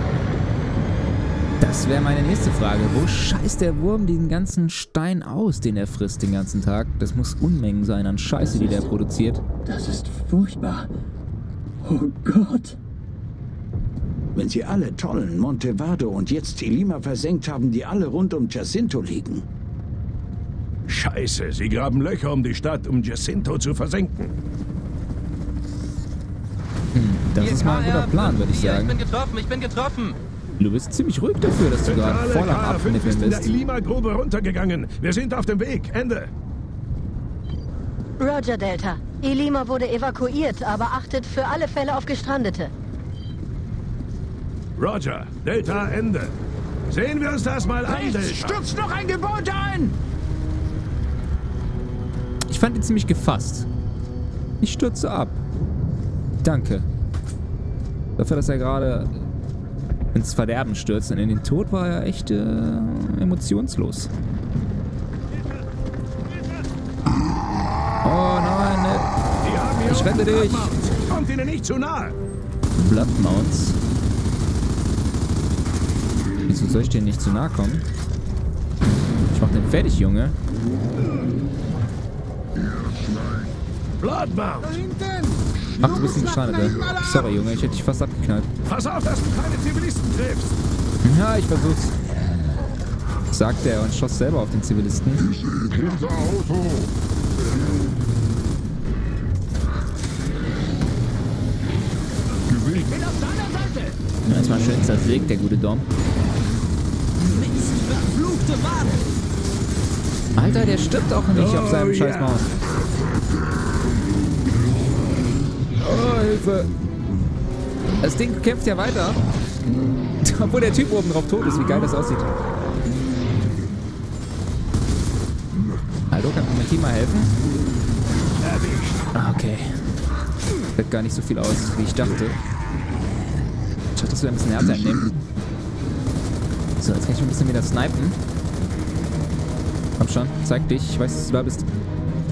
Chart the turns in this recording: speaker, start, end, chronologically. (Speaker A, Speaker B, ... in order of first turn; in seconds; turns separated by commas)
Speaker A: 1.6-9.4, Speaker B: 8.4-8.9, Speaker B: 9.6-10.9, Speaker B: 11.8-12.8, Speaker C: 14.3-19.4, Speaker D: 20.9-24.3, Speaker A: 26.9-29.0, Speaker E: 27.4-30.2, Speaker A: 30.6-33.5, Speaker D: 31.8-36.3, Speaker F: 38.2-42.7, Speaker D: 44.8-46.3, Speaker D: 46.9-48.6, Speaker C: 47.8-50.0, Speaker A: 52.5-53.7, Speaker A: 54.6-55.4, Speaker A: 56.4-56.9, Speaker A: 58.2-59.1, Speaker A: 60.1-64.1, Speaker A: 68.0-69.1, Speaker D: 69.4-72.2, Speaker A: 69.8-70.7, Speaker A: 72.8-73.8, Speaker A: 76.5-77.8, Speaker A: 79.3-80.3, Speaker D: 84.0-84.8, Speaker C: 84.8-85.3, Speaker A: 85.8-88.5, Speaker C: 86.6-87.0, Speaker D: 88.7-90.6, Speaker A: 91.0-92.0, Speaker A: 93.3-95.3, Speaker C: 95.8-96.2, Speaker C: 102.5-104.0, Speaker A: 104.3-105.9, Speaker C: 107.2-109.0, Speaker A: 110.3-112.5, Speaker D: 111.3-112.4, Speaker A: 115.8-116.7, Speaker A: 118.0-119.2, Speaker A: 120.2-122.3, Speaker A: 126.1-127.3, Speaker D: 128.4-129.0, Speaker A: 129.1-129.8, Speaker A: 130.8-132.4, Speaker A: 133.9-135.2, Speaker A: 136.8-138.2, Speaker A: 140.0-141.7